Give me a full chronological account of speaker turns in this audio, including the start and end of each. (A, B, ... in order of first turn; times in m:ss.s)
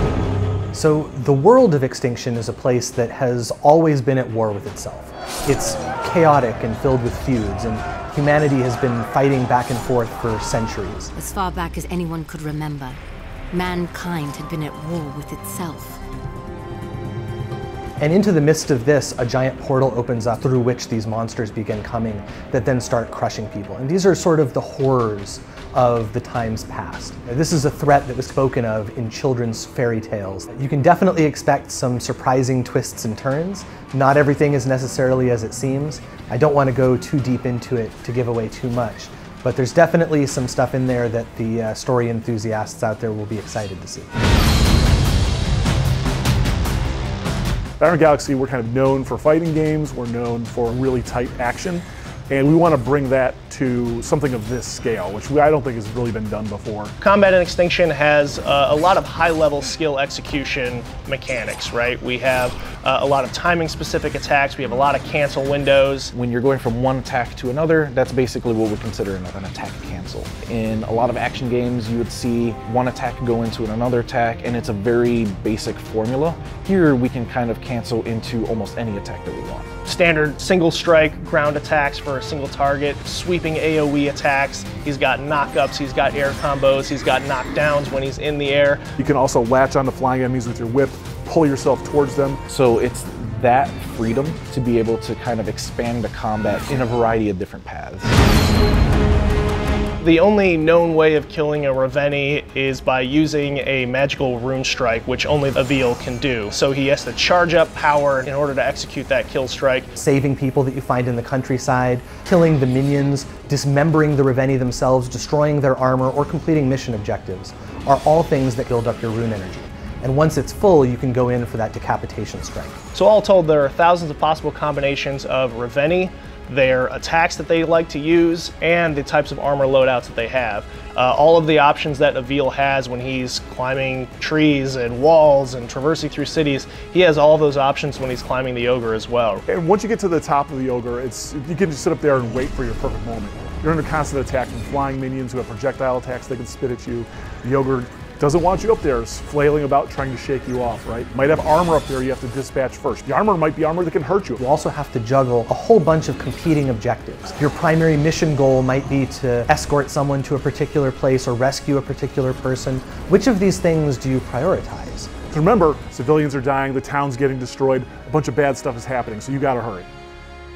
0:00.7-0:11.1 A
0:11.2-0:13.0 B
0:13.5-0:16.0 B
0:18.0-0:44.1 A
0:47.8-0:56.9 C
0:57.0-1:06.1 D
1:06.1-1:19.7 E
1:19.8-1:28.8 D
1:29.0-1:32.4 C
1:32.5-1:38.2 E
1:40.0-1:49.9 D
1:50.0-2:02.8 A
2:02.9-2:19.4 D
2:19.5-2:34.4 C
2:34.4-2:45.1 A
2:45.3-2:49.9 C